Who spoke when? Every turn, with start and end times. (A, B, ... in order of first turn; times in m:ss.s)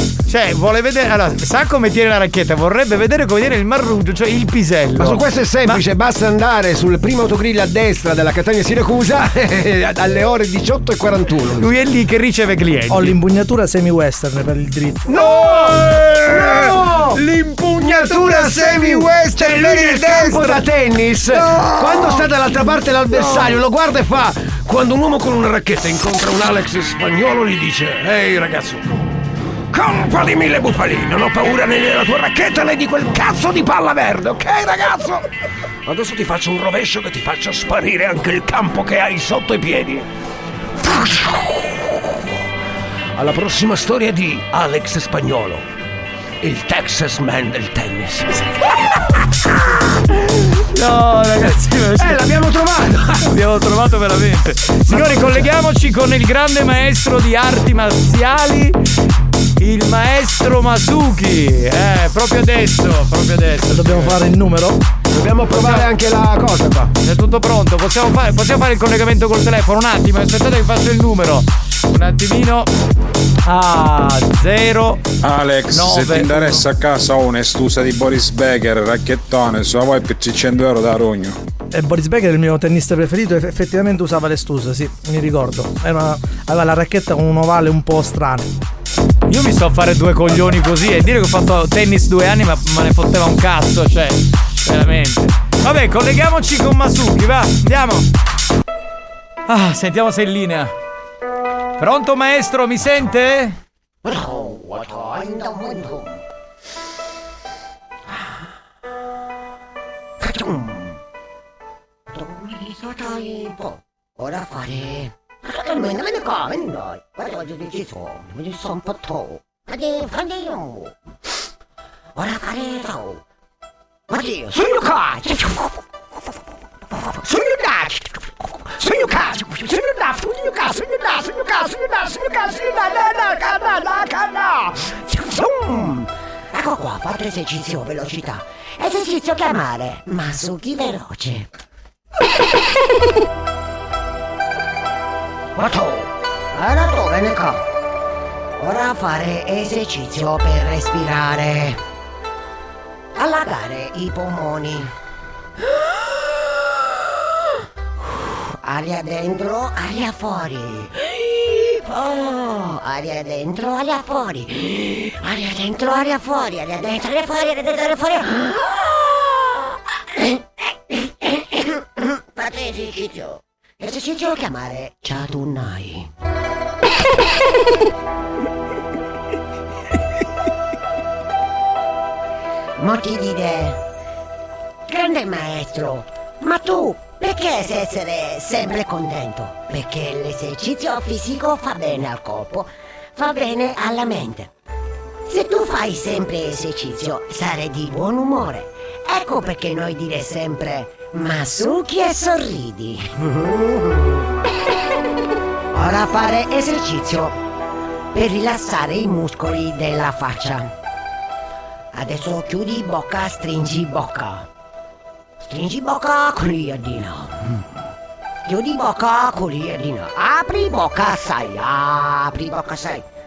0:00.3-0:05.8 A
0:05.0-0:11.7 B
0:11.6-0:13.2 A
0:12.9-0:15.2 C
0:15.1-0:17.2 B
0:15.2-0:16.2 A
0:17.2-0:18.1 A
0:17.8-0:28.8 B
0:18.8-0:19.6 A
0:29.7-0:35.2 B
0:35.9-0:40.1 B
0:40.8-0:41.4 B
0:43.2-0:45.6 B
0:46.4-0:48.4 B
0:50.7-0:52.3 A
0:52.0-0:53.2 B
0:53.2-0:58.8 A
0:54.9-0:55.5 B
0:59.6-1:04.2 A
1:03.7-1:04.8 C
1:05.1-1:06.9 B
1:05.5-1:05.9 A
1:07.0-1:12.7 A
1:13.5-1:15.0 A
1:15.2-1:21.4 D
1:15.7-1:16.6 A
1:21.7-1:28.5 C
1:29.3-1:38.1 A
1:39.5-1:40.7 A
1:41.8-1:43.6 A
1:44.0-1:46.2 E
1:48.1-1:48.5 E
1:50.2-1:51.0 E
1:52.1-2:01.0 E
2:02.2-2:03.2 E
2:04.1-2:05.8 E
2:06.9-2:21.5 E
2:25.6-2:27.7 E
2:28.6-2:31.8 E
2:33.2-2:34.9 E
2:35.7-2:36.5 E
2:38.2-2:56.1 E
3:02.8-3:03.8 E
3:04.9-3:14.5 E
3:15.3-3:24.3 E
3:25.7-3:27.4 E
3:28.1-3:30.7 E
3:31.9-3:34.5 E
3:35.4-3:37.7 E
3:38.4-3:43.1 E